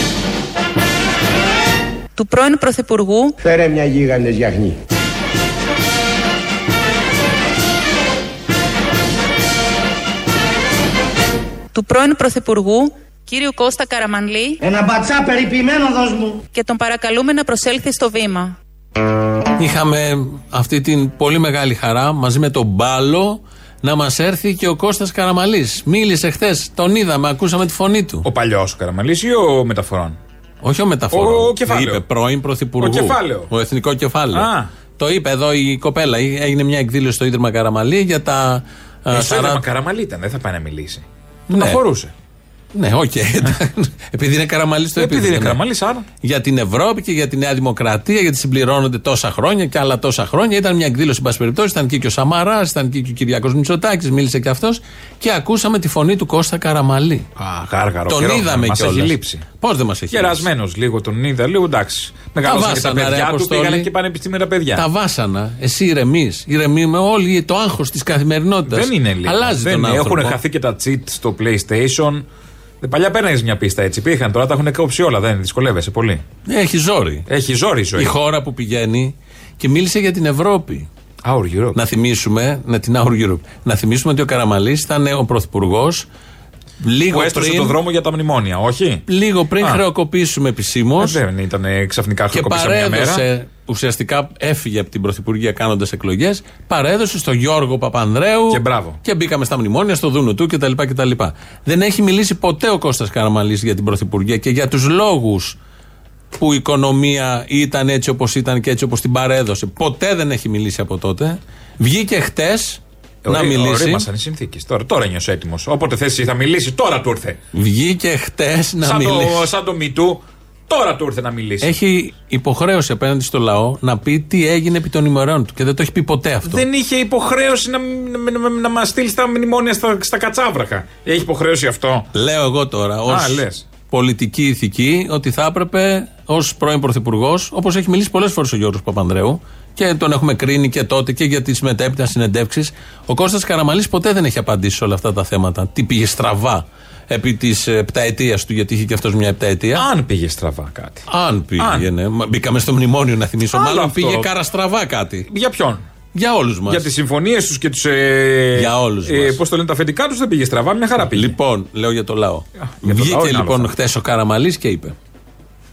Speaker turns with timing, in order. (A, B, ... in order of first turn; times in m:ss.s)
0:02.1-0:03.3 A
0:03.4-0:04.8 B
0:11.7-0:14.6 A
0:14.6-0:16.4 B
0:16.5-0:18.6 A
0:19.6-0:28.2 C
0:28.2-0:30.2 D
0:30.6-0:39.6 C
0:31.1-0:32.0 D
0:32.8-0:33.5 D
0:34.3-0:34.7 D
0:39.1-0:42.1 D
0:41.5-0:41.8 C
0:42.7-0:45.6 C
0:45.0-0:46.0 D
0:46.2-0:57.2 C
0:57.4-0:59.4 D
0:58.1-1:00.4 C
1:00.1-1:04.8 D
1:02.4-1:03.9 C
1:04.7-1:10.4 C
1:08.7-1:12.2 D
1:12.8-1:16.2 D
1:16.4-1:17.2 C
1:17.3-1:18.1 D
1:18.0-1:20.9 C
1:21.2-1:21.8 D
1:21.7-1:26.1 C
1:26.8-1:27.8 C
1:27.1-1:29.0 D
1:29.1-1:31.2 C
1:31.0-1:33.2 D
1:32.3-1:45.6 C
1:38.5-1:39.0 D
1:46.3-1:54.0 C
1:53.2-1:57.4 D
1:57.5-1:59.5 C
1:58.8-2:01.7 D
2:01.6-2:06.6 C
2:06.4-2:12.1 D
2:12.1-2:29.9 C
2:13.1-2:13.6 D
2:29.8-2:31.1 D
2:31.1-2:35.3 C
2:31.6-2:31.8 D
2:33.5-2:34.3 D
2:35.3-2:35.8 D
2:36.1-2:36.9 C
2:36.7-2:41.3 D
2:38.5-2:39.4 C
2:41.1-2:44.9 C
2:42.8-2:43.7 D